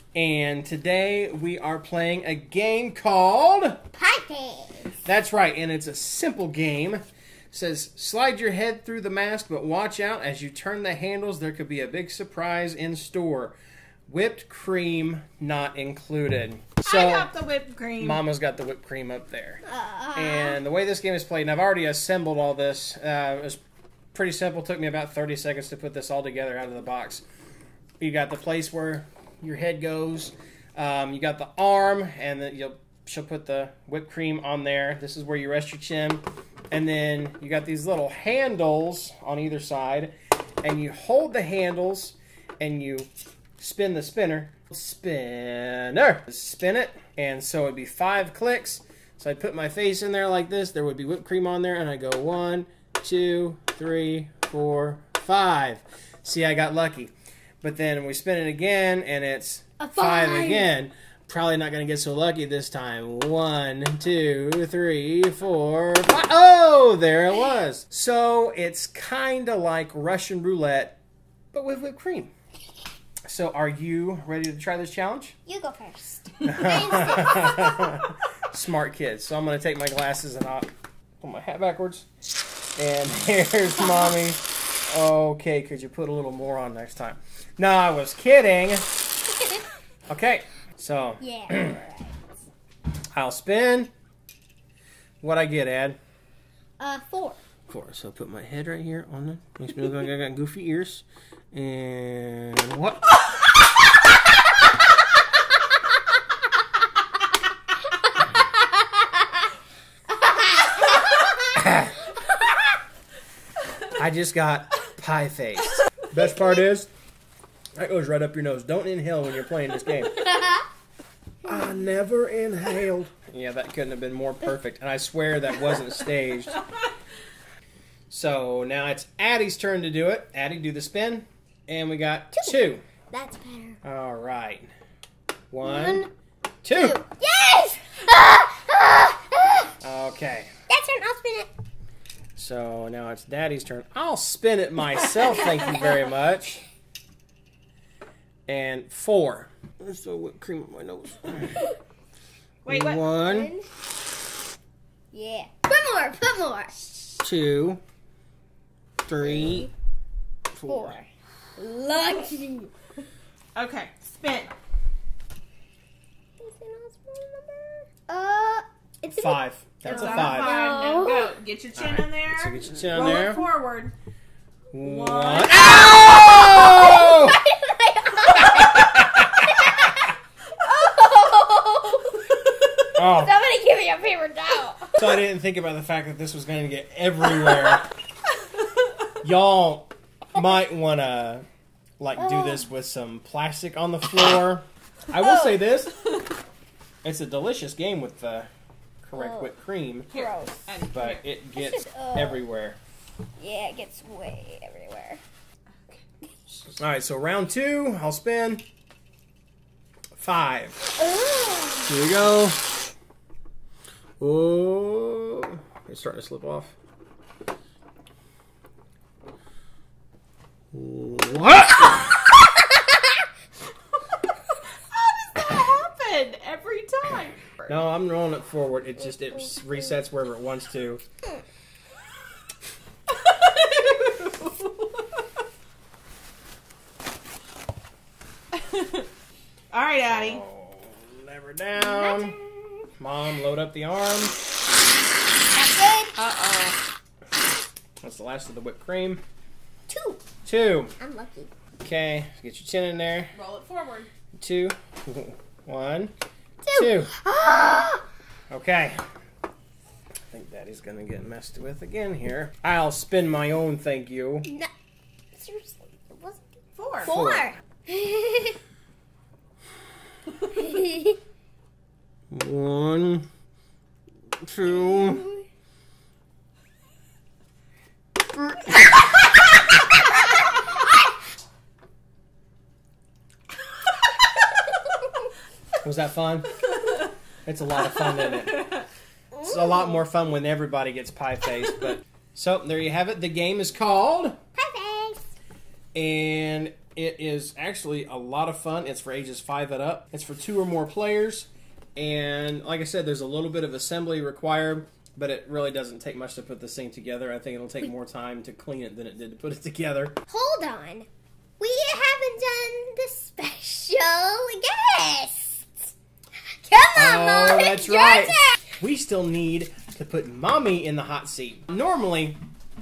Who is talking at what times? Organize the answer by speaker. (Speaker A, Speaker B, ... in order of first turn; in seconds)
Speaker A: 0.1-3.8, 5.0-13.6, 14.1-17.3, 18.0-23.6, 24.1-27.2, 28.0-71.0, 71.5-72.3, 73.3-75.3, 76.4-80.7, 81.2-82.1, 82.8-89.0, 90.1-91.8, 93.1-93.9, 95.2-96.0, 97.7-103.2, 111.5-112.0, 113.9-116.9, 117.8-120.3, 121.4-126.6, 128.1-132.8, 133.8-134.7, 135.5-136.1, 136.6-137.0, 139.8-140.5, 142.3-146.6, 148.5-151.7, 152.7-153.5, 157.2-157.8, 159.0-159.7, 160.5-161.0, 169.1-170.6, 171.7-173.4, 174.7-177.4, 178.3-179.9, 182.9-183.3, 185.0-187.8, 189.2-191.4, 192.0-196.0, 197.0-198.5, 199.0-200.1, 200.9-202.8, 206.8-208.6, 210.2-210.9, 211.9-212.7, 214.2-216.7, 220.7-222.1, 227.7-231.0, 240.1-242.4, 243.0-244.3, 248.0-249.2, 250.4-250.9, 251.8-253.3, 254.4-256.1, 256.7-257.1, 258.5-259.0, 260.3-264.5, 267.0-267.5, 272.3-273.3, 274.4-275.3, 285.8-286.5, 287.4-288.7, 289.4-294.4, 295.9-310.1, 316.9-322.4
Speaker B: 3.9-4.9, 19.6-20.6, 59.8-60.7, 75.5-78.0, 83.7-84.1, 91.2-92.1, 96.8-97.4, 133.1-133.8, 135.6-136.1, 136.7-139.7, 140.7-141.5, 153.0-153.7, 155.1-157.2, 159.2-159.7, 160.7-162.7, 166.4-171.3, 175.5-180.0, 180.6-182.2, 183.0-185.2, 192.2-192.6, 195.1-195.6, 199.1-199.5, 200.1-200.7, 201.5-202.4, 203.4-205.2, 211.0-211.9, 241.7-242.9, 245.5-246.2, 249.9-250.2, 251.0-251.5, 256.6-258.0, 265.3-266.4, 267.0-268.6, 270.6-271.1, 274.6-275.4, 294.6-295.2, 310.3-311.1, 311.6-315.9, 316.5-318.5
Speaker C: 16.8-18.2, 152.6-153.0, 163.5-164.5, 169.8-173.9, 174.8-175.7, 200.1-201.2, 224.9-227.8, 233.1-235.1, 238.5-239.1, 239.7-240.4, 246.2-246.8, 253.3-254.1, 266.8-267.1, 288.2-288.8